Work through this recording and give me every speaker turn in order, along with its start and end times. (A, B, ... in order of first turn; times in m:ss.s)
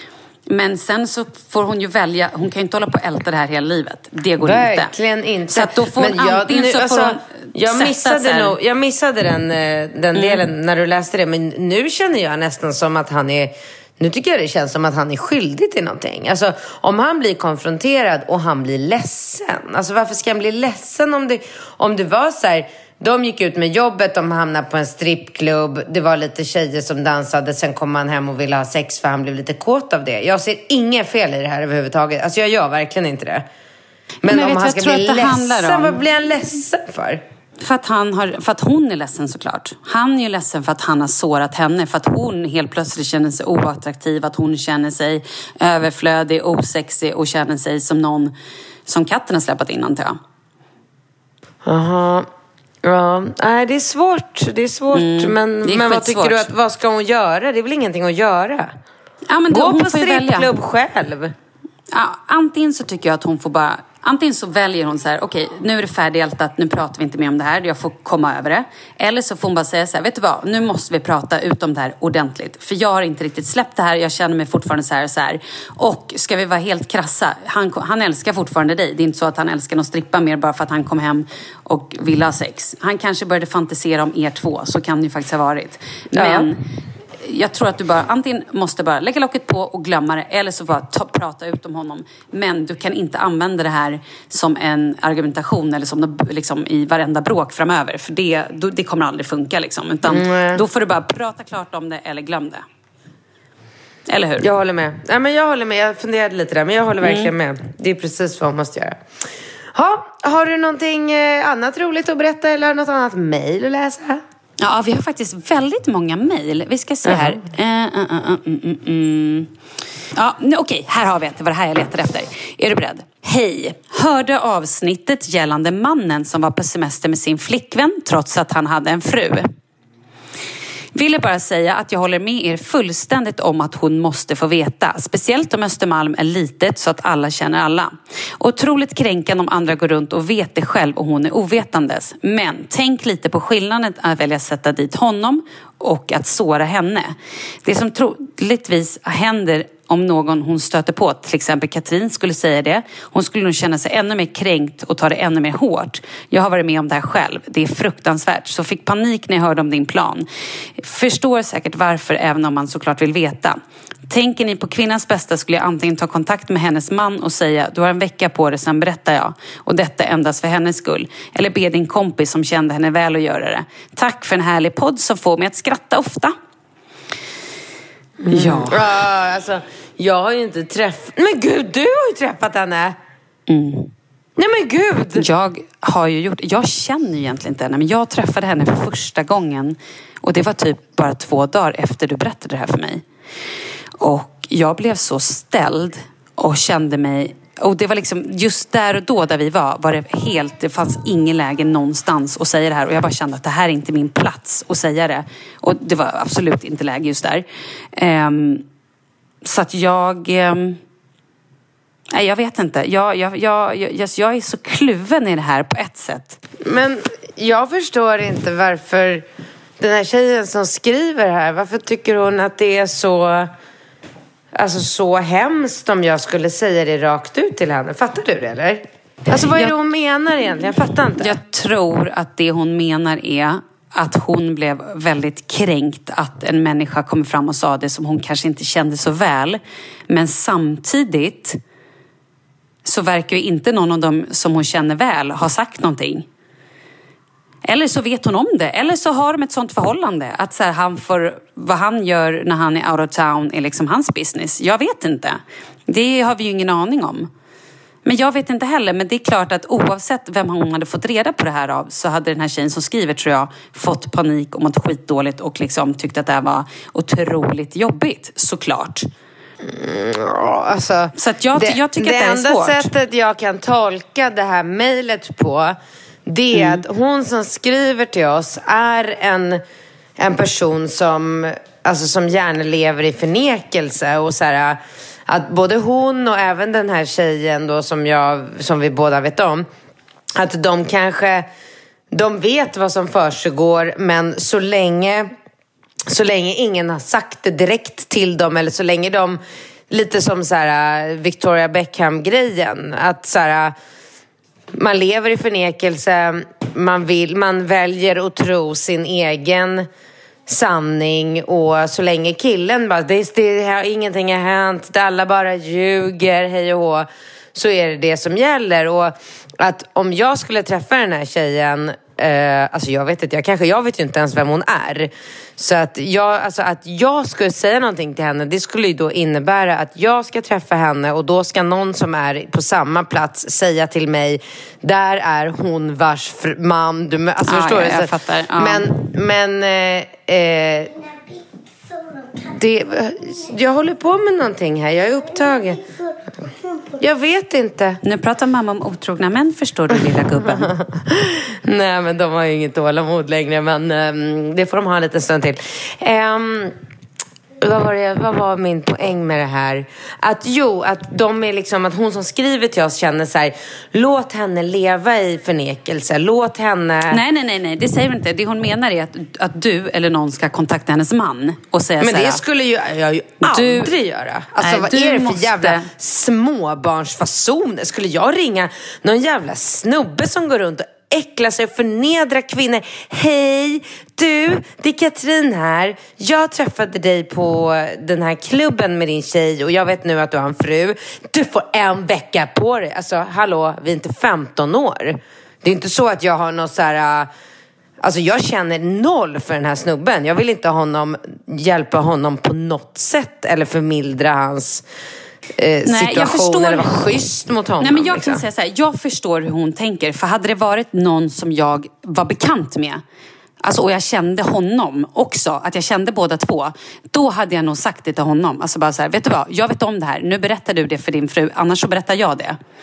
0:00.5-0:04.9 A
0:04.4-0:33.4 B
0:05.5-0:08.5 A
0:10.1-0:10.4 A
0:34.2-0:37.2 B
0:34.2-0:36.0 A
0:37.6-0:48.3 A
0:48.9-0:50.2 A
0:51.6-0:52.3 B
0:52.8-0:58.8 B
0:54.9-0:56.5 A
0:59.3-1:00.5 A
0:59.5-1:01.3 B
1:01.9-1:26.6 A
1:26.1-1:26.5 B
1:27.2-1:42.6 A
1:40.0-1:40.6 B
1:44.1-1:44.5 A
1:44.4-1:49.0 B
1:47.0-1:47.3 A
1:49.7-1:54.2 B
1:54.6-1:59.5 A
1:57.0-1:57.4 B
2:00.1-2:09.5 A
2:10.9-2:40.2 A
2:40.8-2:56.3 A
2:58.2-3:03.0 B
2:58.3-2:58.8 A
3:03.5-3:03.9 A
3:04.4-3:05.2 B
3:05.1-3:13.0 A
3:14.0-3:28.6 A
3:29.4-3:30.8 A
3:32.1-3:36.4 A
3:36.6-3:39.2 B
3:39.8-3:43.5 B
3:44.5-3:51.4 B
3:49.3-3:49.7 A
3:51.2-4:01.6 A
4:02.8-4:06.2 A
4:07.6-4:17.3 A
4:18.0-4:29.1 A
4:29.6-4:39.6 B
4:31.2-4:32.9 A
4:36.5-4:36.8 A
4:40.2-4:49.7 B
4:50.3-4:51.5 B
4:52.1-4:55.3 B
4:56.1-5:03.7 B
5:04.7-5:09.9 B
5:10.5-5:41.1 B
5:37.4-5:38.9 A
5:42.3-5:45.9 B
5:47.0-5:48.0 B
5:48.0-5:50.7 A
5:49.9-5:56.8 B
5:57.6-6:07.2 B
6:07.1-6:12.4 A
6:12.0-6:37.3 B
6:13.4-6:13.9 A
6:14.6-6:15.9 A
6:38.0-6:44.8 B
6:45.6-6:48.4 B
6:45.8-6:47.0 A
6:47.8-6:53.0 A
6:53.6-7:02.6 A